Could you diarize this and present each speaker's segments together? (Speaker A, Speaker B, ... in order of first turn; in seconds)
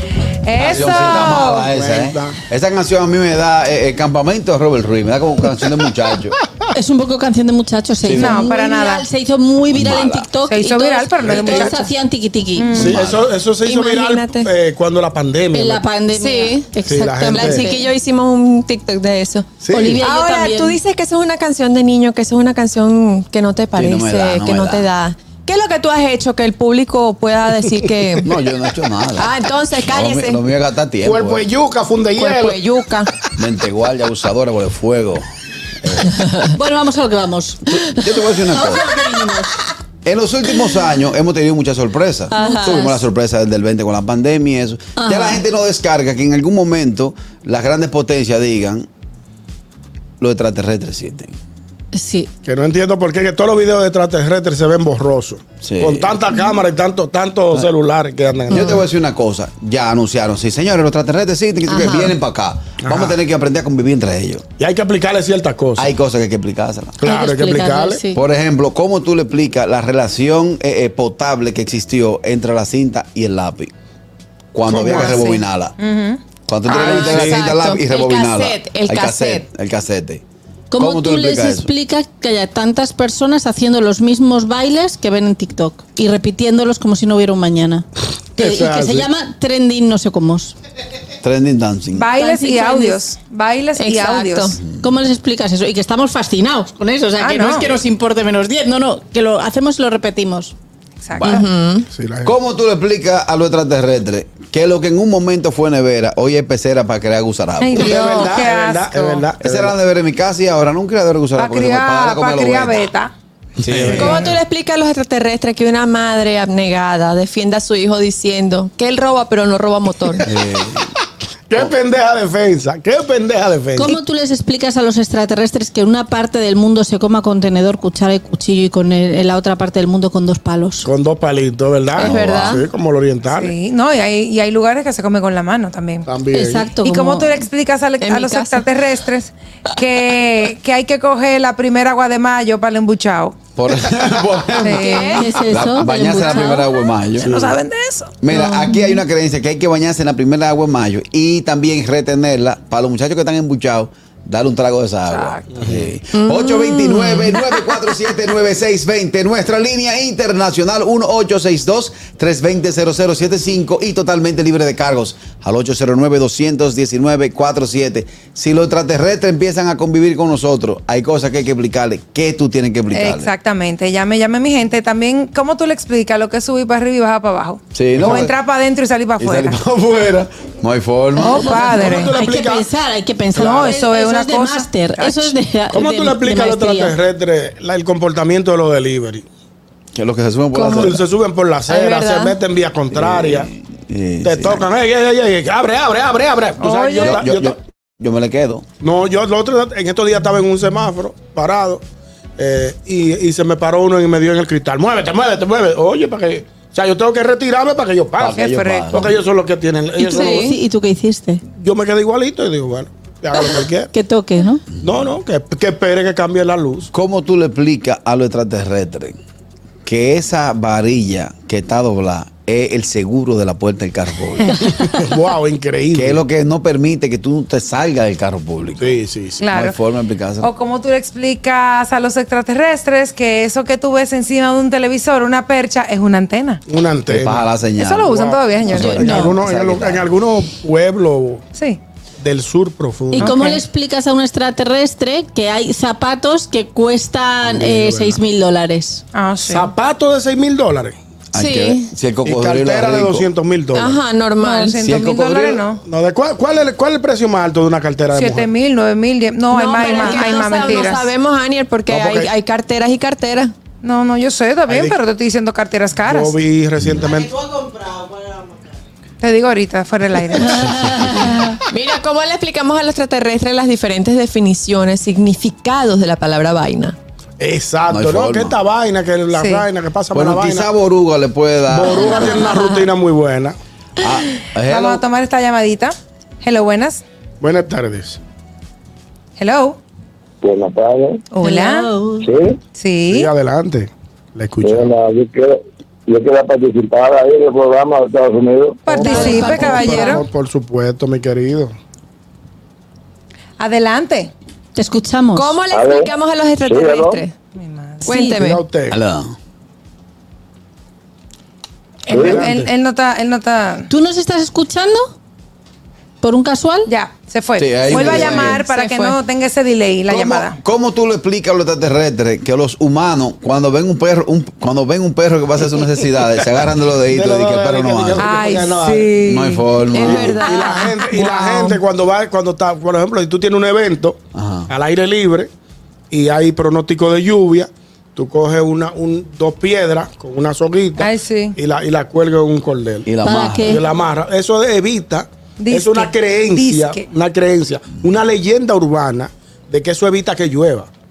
Speaker A: 0.4-1.6, 8.1-9.1, 10.4-11.9, 12.5-13.0, 74.9-76.2, 91.9-94.6, 97.2-97.8, 101.0-101.4, 107.6-109.2, 111.4-113.1, 133.3-136.1, 136.8-143.4, 144.6-145.3, 146.2-148.1, 155.1-155.4, 172.9-179.6, 181.2-182.2, 183.3-185.3, 196.6-197.2, 208.3-209.1, 229.4-229.8, 230.4-236.6, 237.8-239.3, 241.5-241.8, 243.2-243.6, 249.1-249.7, 254.4-255.8, 258.1-261.1, 263.8-266.4, 269.2-270.9, 279.3-279.6, 284.7-287.0, 289.4-289.8, 291.3-291.9, 292.7-293.3, 298.9-300.2, 303.6-304.3, 307.6-308.1, 312.1-313.9, 316.9-320.6, 328.2-329.7, 330.5-331.8, 341.0-341.6, 345.6-347.1
Speaker B: 0.5-6.4, 8.0-8.4, 9.7-10.3, 12.7-13.2, 23.7-24.9, 28.2-31.4, 33.4-35.2, 35.8-36.1, 37.7-38.9, 40.0-48.9, 50.2-51.4, 55.6-56.2, 58.5-64.4, 65.8-67.0, 68.1-73.7, 74.5-75.8, 76.5-80.2, 80.8-81.7, 91.2-92.1, 101.1-101.4, 102.2-108.2, 109.4-112.8, 113.7-114.2, 120.2-120.9, 132.0-132.6, 143.6-147.5, 148.2-173.3, 177.7-178.3, 179.2-181.9, 189.9-191.0, 192.9-194.7, 197.0-198.6, 208.2-209.1, 216.9-219.2, 219.8-224.5, 225.9-229.0, 229.5-230.5, 237.1-240.1, 251.3-253.3, 254.8-255.6, 277.9-278.6, 280.1-282.4, 284.0-285.0, 308.9-309.4, 317.6-318.6, 320.1-328.4, 329.2-330.4, 334.3-334.7, 343.1-343.8
Speaker C: 0.6-2.4, 11.2-11.7, 12.8-15.8, 16.8-17.7, 19.6-20.0, 31.0-32.6, 52.4-58.8, 62.8-63.2, 64.6-65.9, 67.0-68.0, 74.7-75.2, 76.7-77.4, 88.4-89.1, 101.9-102.3, 107.7-109.8, 113.6-114.3, 121.5-124.0, 130.8-133.5, 136.1-136.8, 147.2-147.5, 181.6-182.7, 183.4-183.7, 185.7-189.2, 190.8-193.5, 194.2-197.6, 198.8-201.8, 202.4-208.4, 208.9-210.5, 211.5-213.9, 214.8-216.9, 224.8-226.2, 228.8-229.4, 236.7-237.5, 238.1-241.4, 242.2-243.4, 247.4-248.2, 249.4-251.0, 252.2-254.0, 255.8-258.5, 261.9-262.3, 264.7-265.0, 266.1-267.4, 277.4-280.7, 281.7-283.6, 287.4-288.2, 293.1-295.0, 299.0-301.7, 308.4-309.0, 312.1-312.7, 327.1-329.1, 330.0-335.5, 336.1-350.9
Speaker D: 6.7-12.8, 15.5-17.9, 19.7-20.8, 36.5-39.5, 42.3-43.0, 45.0-45.4, 51.9-52.3, 67.0-68.2, 80.7-90.5, 92.1-93.0, 94.8-100.5, 123.7-130.9, 136.3-137.4, 145.1-146.7, 182.1-187.0, 210.0-211.4, 213.9-214.6, 238.7-239.3, 243.1-249.0, 291.4-292.4, 299.0-300.2, 304.8-305.6, 308.1-308.4, 313.9-315.1, 316.2-316.9, 343.2-343.8
Speaker E: 13.6-14.5, 16.1-16.7, 17.3-28.3, 29.2-30.5, 32.2-33.1, 42.3-42.8, 58.5-58.8, 61.7-62.1, 76.7-79.5, 93.8-94.6, 101.2-101.9, 113.9-120.2, 131.9-132.6, 138.0-138.7, 144.6-145.3, 148.3-149.0, 156.2-157.9, 190.5-191.0, 191.7-192.4, 210.1-210.5, 251.3-251.9, 253.7-254.8, 259.5-263.5, 271.7-277.0, 281.9-282.7, 305.3-307.3, 308.1-308.6, 317.9-319.2, 329.9-330.8
Speaker F: 290.4-291.2, 292.2-292.6, 294.6-298.8, 305.7-306.1, 306.6-307.2